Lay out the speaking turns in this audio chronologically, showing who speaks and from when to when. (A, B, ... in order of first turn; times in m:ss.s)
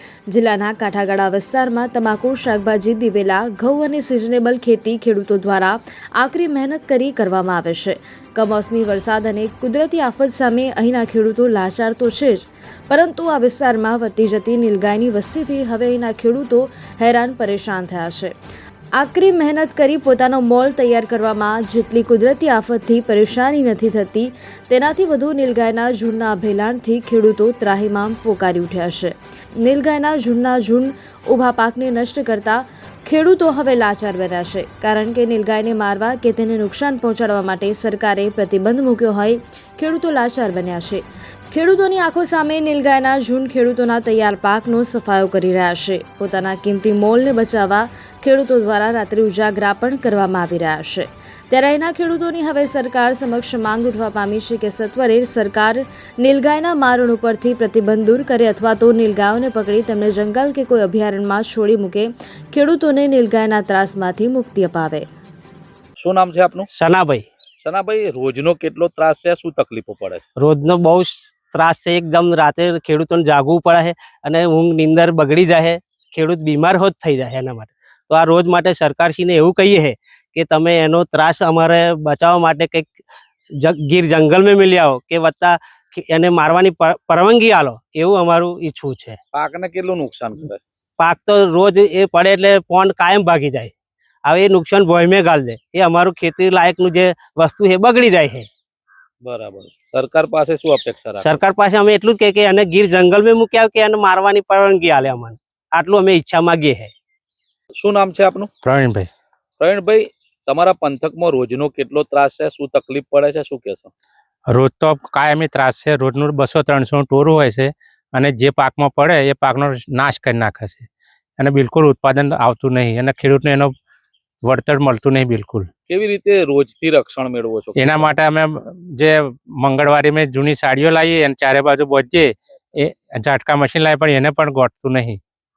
0:00.3-0:18.3 A
0:19.0-1:05.0 A
1:06.0-1:06.7 B
1:06.7-1:07.3 C
1:07.6-1:10.2 B
1:10.4-1:23.0 C
1:23.6-1:29.2 C
1:29.3-1:30.6 B
1:31.0-1:33.7 C
1:34.3-1:38.5 C
1:39.2-1:41.4 B
1:41.2-1:46.9 C
1:47.8-1:48.5 B
1:48.6-1:49.1 D
1:49.6-1:53.9 B
1:54.5-2:00.9 D
2:01.4-2:03.7 D
2:04.4-2:05.7 D
2:05.9-2:08.1 B
2:07.8-2:15.2 D